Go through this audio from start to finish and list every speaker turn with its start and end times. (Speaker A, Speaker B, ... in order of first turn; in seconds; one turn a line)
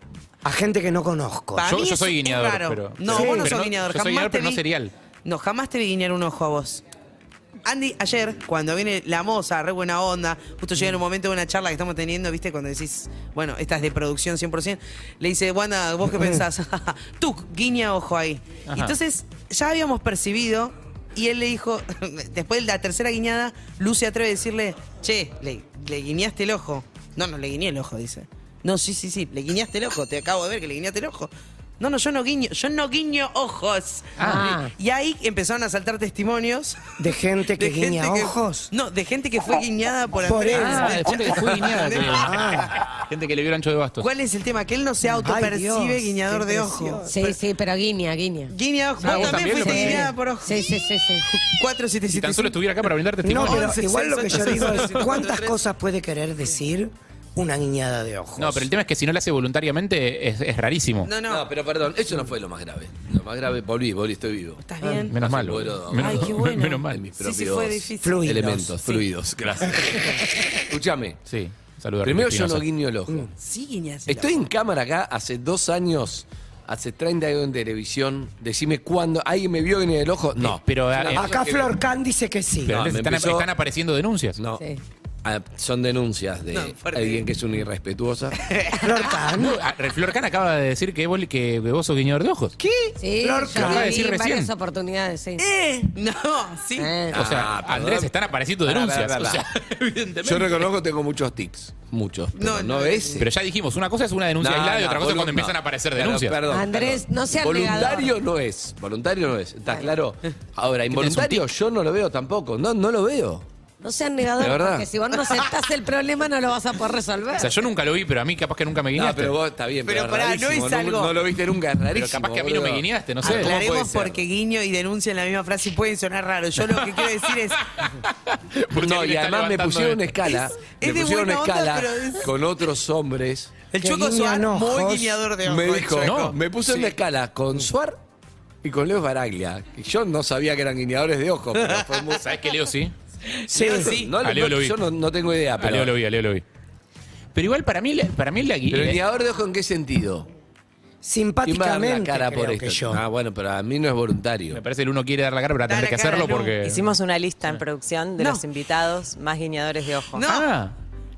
Speaker A: 0.4-1.7
Speaker B: 1.6-4.6
Speaker C: 1.6-4.9
Speaker A: 3.1-3.5
Speaker B: 5.2-6.8
Speaker B: 7.6-37.0
Speaker A: 16.1-16.4
Speaker C: 18.7-18.9
Speaker C: 34.2-34.5
Speaker D: 34.2-34.7
Speaker A: 37.0-38.7
Speaker B: 37.6-42.7
Speaker A: 40.2-42.7
Speaker C: 40.5-44.1
Speaker B: 44.0-47.4
Speaker A: 45.2-47.1
Speaker D: 47.1-48.5
Speaker B: 48.5-50.8
Speaker C: 49.0-50.1
Speaker D: 49.0-51.2
Speaker B: 51.4-52.6
Speaker C: 52.1-53.7
Speaker A: 53.2-58.7
Speaker B: 53.3-55.6
Speaker C: 58.4-61.1
Speaker B: 61.0-61.5
Speaker E: 61.3-64.6
Speaker B: 64.6-65.2
Speaker C: 65.1-67.0
Speaker E: 65.1-71.2
Speaker B: 66.0-69.1
Speaker A: 68.0-68.8
Speaker C: 71.2-72.6
Speaker E: 72.0-73.3
Speaker B: 73.4-74.5
Speaker E: 74.1-81.8
Speaker C: 80.4-81.3
Speaker A: 81.1-82.8
Speaker C: 82.7-84.4
Speaker E: 82.7-83.5
Speaker E: 84.4-84.6
Speaker E: 85.2-88.4
Speaker B: 86.5-87.3
Speaker B: 88.4-89.2
Speaker A: 88.8-89.6
Speaker C: 89.3-92.5
Speaker B: 92.6-92.9
Speaker D: 93.0-95.4
Speaker A: 93.2-94.0
Speaker C: 93.5-94.5
Speaker B: 95.4-97.0
Speaker D: 96.8-97.2
Speaker E: 97.1-98.1
Speaker C: 97.1-100.7
Speaker E: 98.6-99.5
Speaker E: 100.2-103.3
Speaker B: 102.3-103.2
Speaker C: 103.2-106.4
Speaker E: 104.4-113.5
Speaker D: 106.5-108.1
Speaker C: 110.9-111.5
Speaker D: 113.8-117.5
Speaker E: 114.4-114.9
Speaker C: 117.3-119.4
Speaker E: 118.9-124.2
Speaker B: 119.8-121.2
Speaker C: 121.9-123.6
Speaker B: 123.2-127.8
Speaker C: 126.8-127.0
Speaker C: 127.6-130.1
Speaker E: 128.7-133.6
Speaker B: 130.6-132.3
Speaker B: 133.7-136.9
Speaker A: 133.8-135.2
Speaker E: 135.4-138.0
Speaker C: 136.0-136.3
Speaker E: 138.6-142.3
Speaker B: 141.6-142.0
Speaker C: 142.2-142.9
Speaker B: 143.3-144.2
Speaker A: 143.5-143.9
Speaker E: 143.7-145.9
Speaker C: 144.2-144.8
Speaker C: 145.6-146.4
Speaker C: 147.3-149.0
Speaker E: 148.7-150.3
Speaker A: 151.0-153.0
Speaker E: 151.4-154.6
Speaker C: 154.5-156.8
Speaker B: 155.7-156.5
Speaker F: 156.6-160.2
Speaker B: 158.2-158.4
Speaker B: 160.1-160.5
Speaker C: 160.2-160.7